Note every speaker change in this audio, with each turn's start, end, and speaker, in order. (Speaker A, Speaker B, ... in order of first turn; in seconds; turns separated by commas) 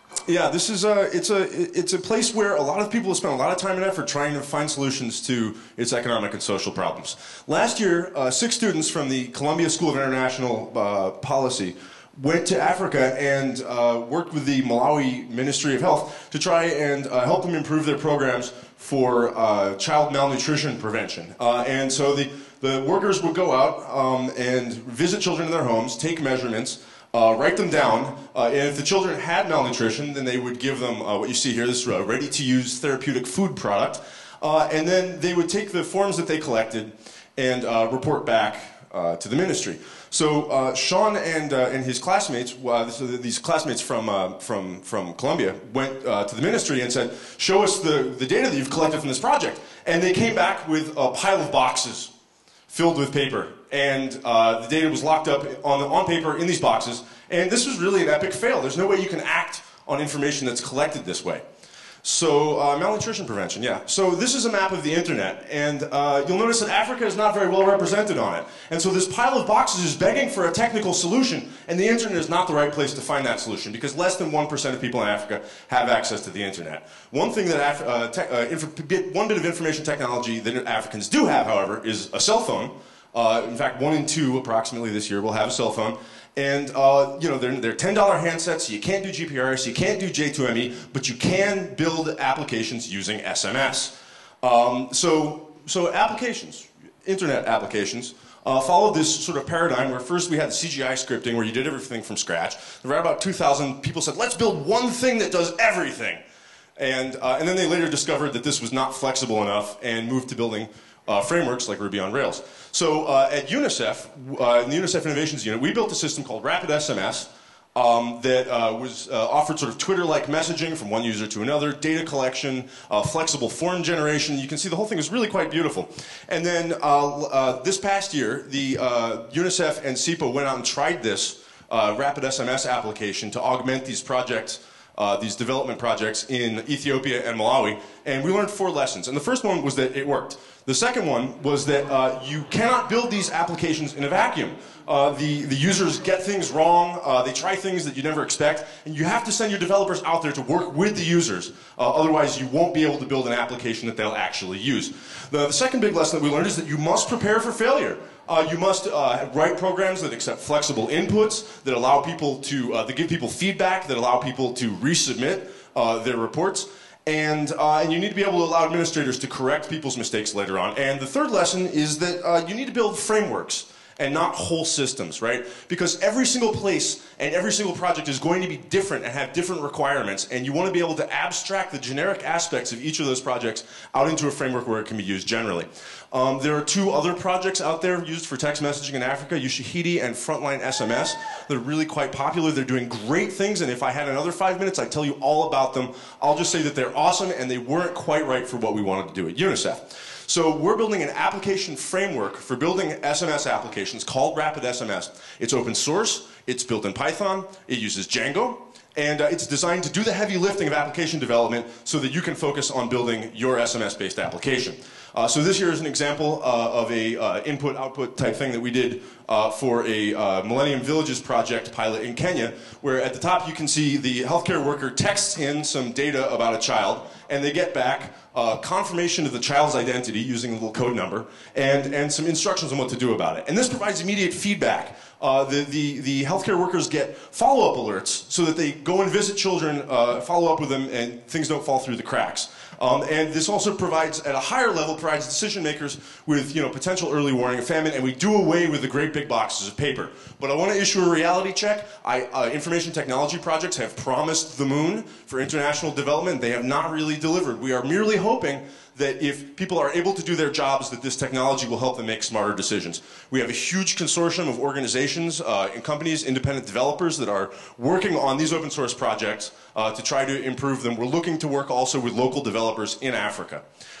Speaker A: 0.3-52.1, Speaker A: 52.7-61.4, Speaker A: 62.0-106.2, Speaker A: 106.8-273.6